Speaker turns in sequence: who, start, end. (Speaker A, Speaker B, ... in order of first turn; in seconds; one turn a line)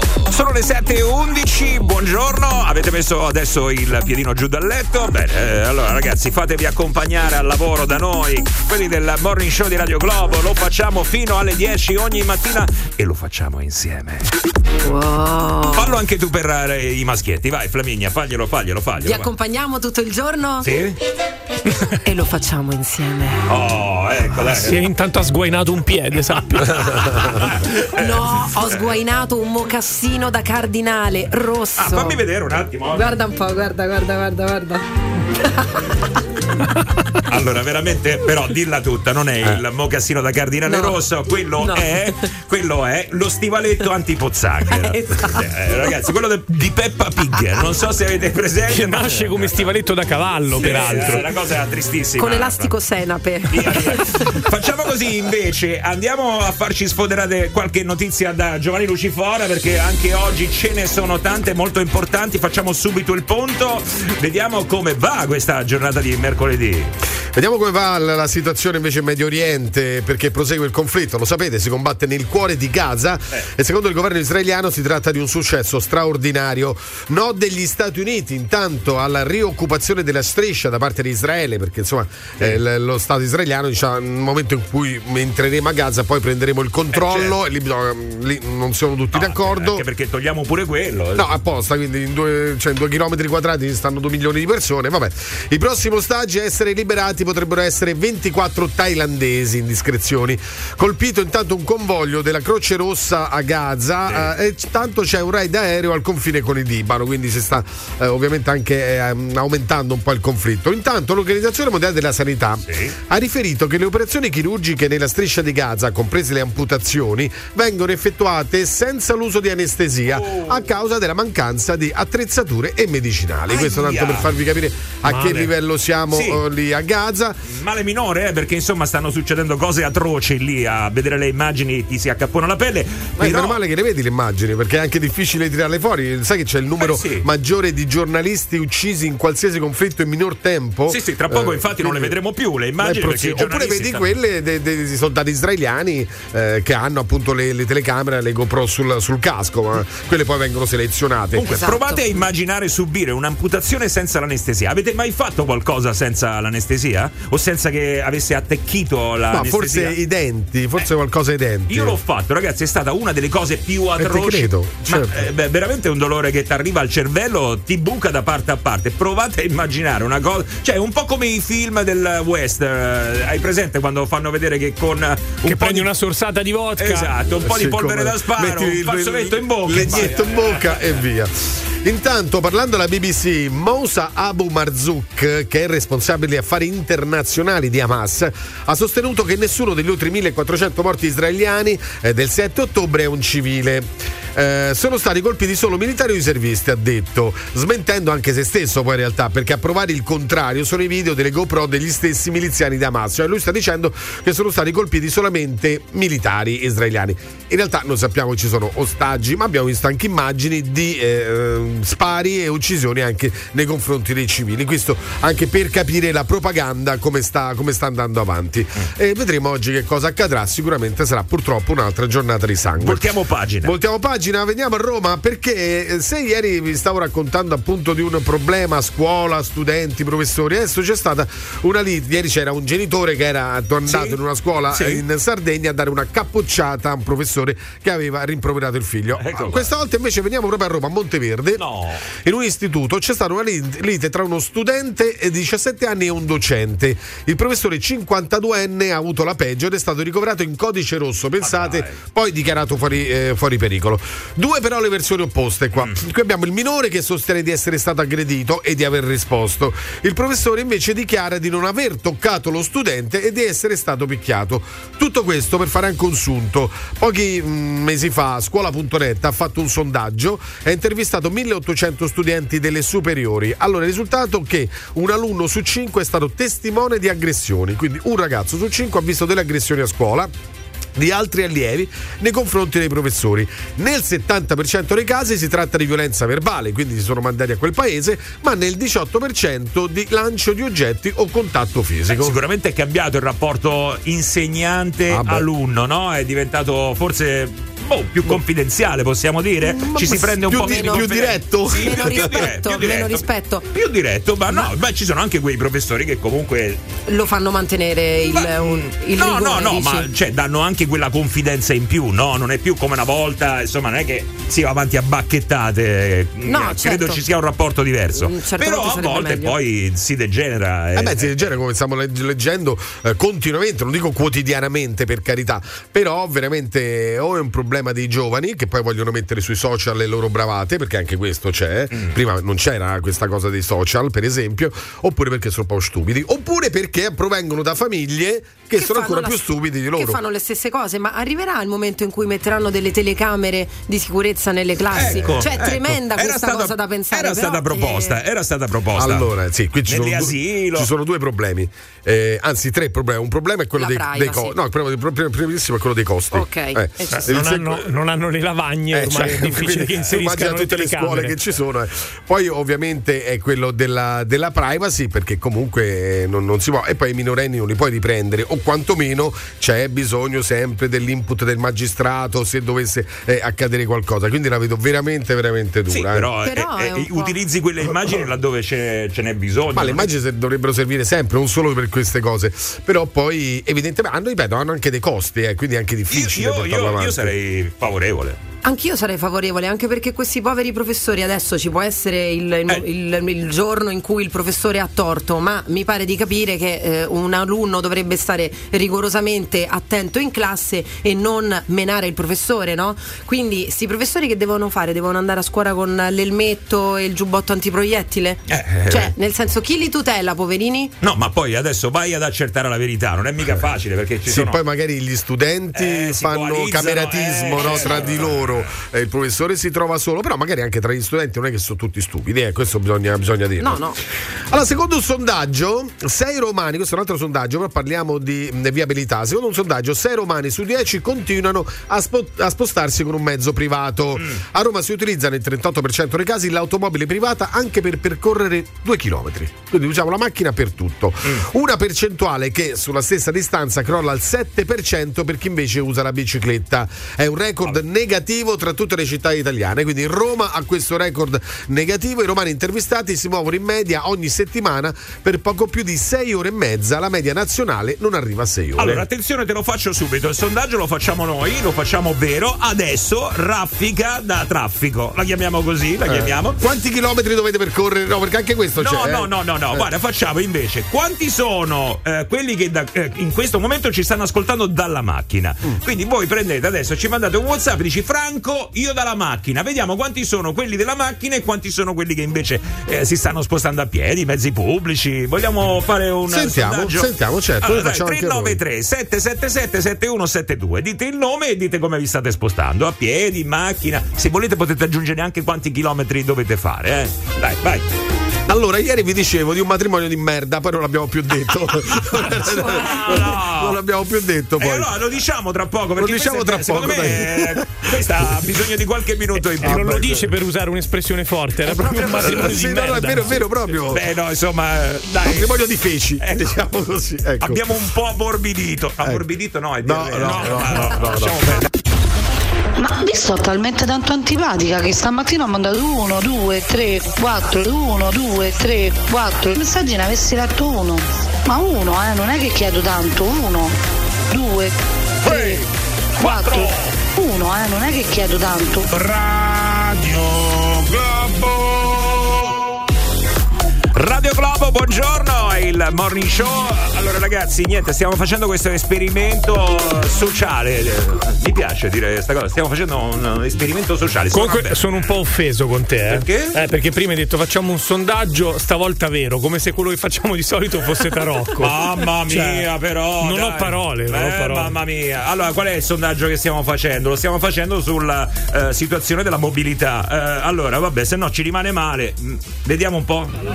Speaker A: 0.3-14.3
Speaker B: 14.8-16.0
Speaker A: 15.7-19.3
Speaker B: 19.0-20.7
Speaker A: 20.6-21.0
Speaker B: 22.0-23.4
Speaker A: 23.5-24.8
Speaker C: 24.5-27.4
Speaker A: 26.7-28.9
Speaker B: 27.9-32.2
Speaker A: 31.8-33.1
Speaker B: 32.9-35.9
Speaker A: 37.3-49.7
Speaker B: 40.6-41.0
Speaker B: 41.6-42.1
Speaker B: 44.7-45.5
Speaker C: 48.7-51.2
Speaker B: 50.5-51.3
Speaker A: 50.6-52.8
Speaker B: 52.2-54.1
Speaker A: 53.5-66.9
Speaker D: 67.3-89.8
Speaker A: 86.9-87.3
Speaker A: 89.1-91.3
Speaker D: 91.1-127.4
Speaker A: 104.1-104.3
Speaker A: 112.7-112.9
Speaker A: 120.1-120.7
Speaker A: 123.5-124.3
Speaker C: 125.0-125.5
Speaker A: 126.1-126.4
Speaker A: 127.5-133.6
Speaker D: 133.2-142.2
Speaker A: 136.8-137.3
Speaker A: 140.9-144.1
Speaker D: 142.8-151.5
Speaker A: 151.3-159.9
Speaker B: 151.4-152.2
Speaker D: 159.3-162.0
Speaker A: 161.7-175.9
Speaker D: 164.0-165.3
Speaker C: 175.4-177.1
Speaker A: 176.8-181.0
Speaker D: 177.4-223.1
Speaker A: 222.8-223.7
Speaker D: 223.6-241.6
Speaker A: 233.9-234.2
Speaker A: 234.7-235.0
Speaker A: 239.2-239.7
Speaker A: 241.6-242.0
Speaker D: 242.2-280.3
Speaker A: 251.4-252.0
Speaker D: 280.9-292.4
Speaker A: 292.1-306.8
Speaker D: 295.1-295.4
Speaker D: 299.8-302.4
Speaker B: 299.9-301.1
Speaker B: 301.7-303.6
Speaker B: 307.1-310.1
Speaker A: 308.3-321.3
Speaker B: 316.4-317.2
Speaker B: 318.1-319.6
Speaker D: 320.9-340.2
Speaker A: 331.9-332.2
Speaker B: 338.8-348.2
Speaker A: 344.9-349.3
Speaker D: 345.0-345.4
Speaker D: 348.9-357.9
Speaker A: 349.9-350.9
Speaker B: 353.8-354.6
Speaker B: 356.3-357.3
Speaker C: 357.1-361.3
Speaker D: 358.9-376.3
Speaker A: 375.9-380.1
Speaker B: 376.4-377.4
Speaker D: 379.7-387.3
Speaker A: 386.1-388.4
Speaker B: 388.6-410.9
Speaker A: 408.5-409.1
Speaker A: 411.0-414.6
Speaker D: 414.2-423.9
Speaker A: 415.7-418.7
Speaker B: 417.6-418.1
Speaker B: 423.6-424.0
Speaker D: 424.5-459.0
Speaker A: 458.8-466.6
Speaker D: 466.1-469.9
Speaker A: 468.8-497.9
Speaker D: 486.3-488.6
Speaker D: 498.5-504.9
Speaker A: 502.1-503.8
Speaker A: 504.6-510.1
Speaker D: 506.0-508.4
Speaker D: 509.6-510.3
Speaker C: 509.6-513.4
Speaker D: 511.6-514.0
Speaker A: 512.2-512.4
Speaker A: 513.8-515.5
Speaker D: 515.2-517.7
Speaker A: 516.2-516.6
Speaker A: 517.4-521.6
Speaker D: 519.8-521.5
Speaker E: 522.8-533.8
Speaker E: 534.3-535.6
Speaker A: 535.2-535.5
Speaker A: 536.2-536.9
Speaker E: 536.2-538.9
Speaker A: 543.9-555.1
Speaker C: 554.3-562.7
Speaker A: 556.1-556.6
Speaker A: 561.6-573.3
Speaker C: 563.2-564.7